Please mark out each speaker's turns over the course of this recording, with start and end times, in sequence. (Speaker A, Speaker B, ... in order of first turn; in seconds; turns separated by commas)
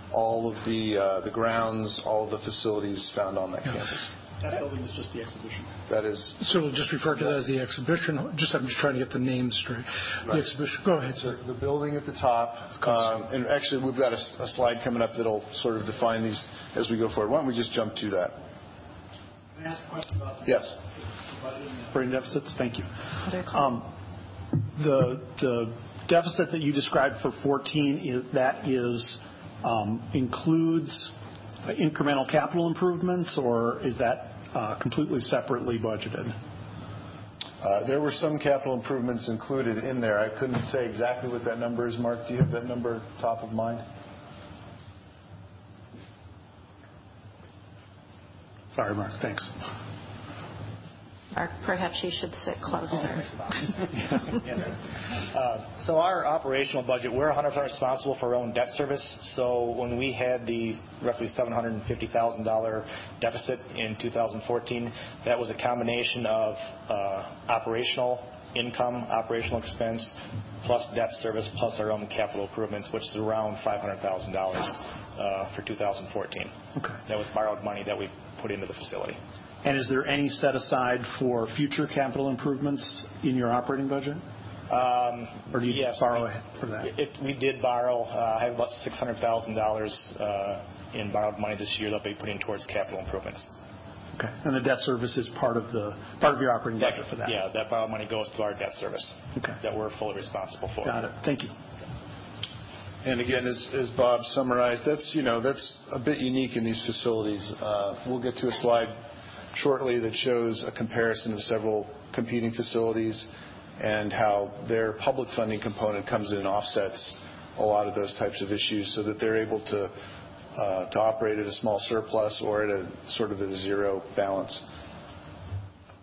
Speaker A: 0.1-4.1, Speaker B: 4.4-5.7, Speaker A: 5.9-6.4, Speaker C: 6.4-11.4, Speaker A: 7.0-7.4, Speaker A: 11.1-18.4, Speaker B: 19.6-22.0, Speaker A: 20.4-20.8, Speaker D: 21.9-22.9, Speaker E: 23.3-23.5, Speaker D: 23.5-23.9, Speaker D: 24.6-36.4, Speaker A: 37.6-43.9, Speaker D: 48.7-49.5, Speaker E: 51.3-53.6, Speaker F: 54.4-54.7, Speaker F: 55.3-79.2, Speaker D: 79.6-84.2, Speaker F: 84.7-86.2, Speaker D: 85.5-86.9, Speaker F: 86.8-93.5, Speaker D: 94.2-97.3, Speaker F: 96.8-101.0, Speaker D: 100.8-101.6, Speaker A: 103.0-109.0, Speaker A: 109.5-120.0, Speaker A: 120.5-124.6